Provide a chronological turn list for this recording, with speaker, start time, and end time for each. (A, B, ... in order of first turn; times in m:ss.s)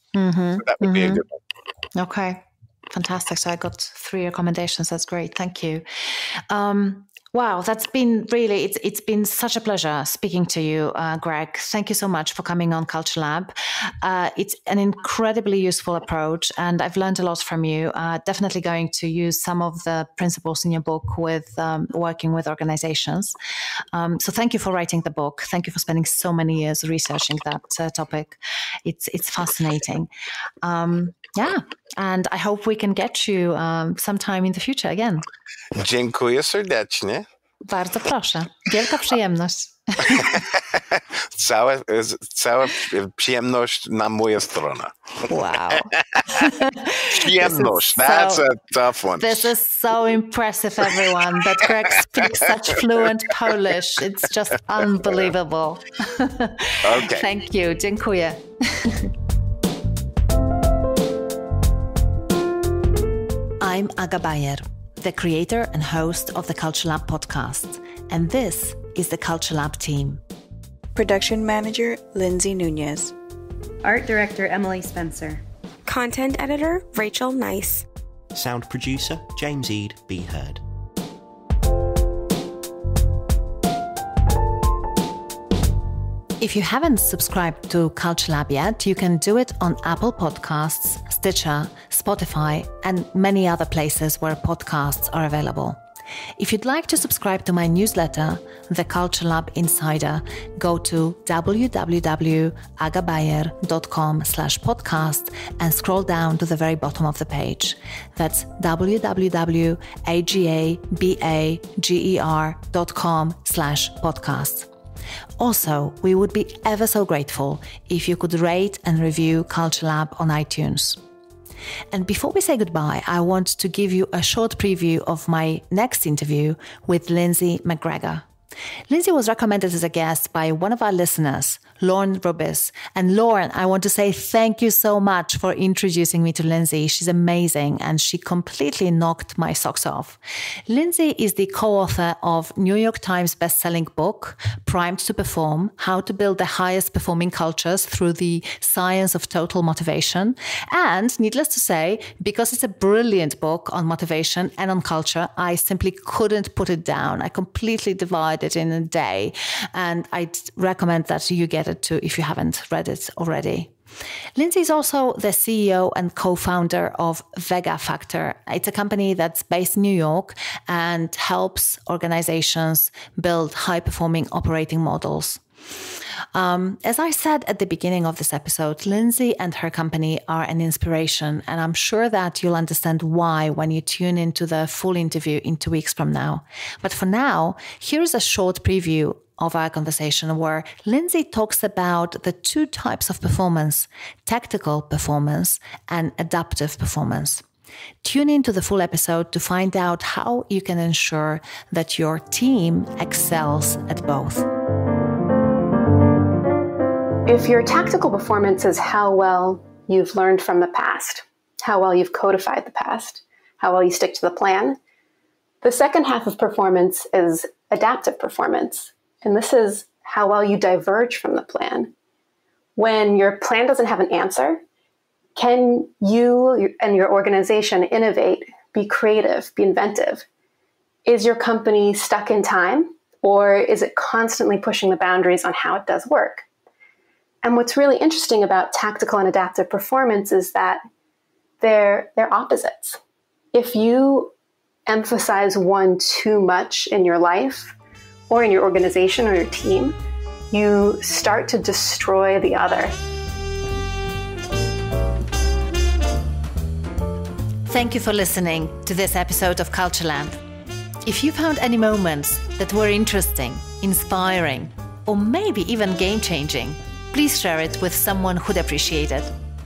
0:00.1-0:01.2 A
0:00.6-0:01.4 B
0:02.0-0:23.4 A
0:23.9-0:30.1 A
0:30.6-0:35.2 A
0:35.7-0:37.2 B
0:37.7-0:40.4 A
0:40.0-0:49.4 B
0:45.2-0:48.4 A
0:49.2-0:59.1 A
0:56.8-0:57.3 B
1:03.6-1:10.2 A
1:11.0-1:13.1 C
1:13.8-1:15.4 A
1:15.8-1:17.8 D
1:18.3-1:20.6 E
1:26.4-1:35.8 A
1:36.4-1:54.7 A
1:55.4-2:01.0 A
2:01.9-2:08.3 A
2:08.9-2:43.7 A
2:44.4-2:55.4 A
2:56.3-3:17.4 A
3:18.0-3:24.5 A
3:27.3-3:34.8 F
3:35.6-3:41.9 F
3:42.8-3:44.6 F
3:45.4-3:50.3 F
3:51.0-3:56.5 F
3:57.4-4:00.8 F
4:01.6-4:03.0 F
4:03.5-4:04.3 F
4:04.9-4:07.8 F
4:08.3-4:10.0 F
4:10.5-4:12.9 F
4:17.7-4:20.4 A
4:21.0-4:29.3 A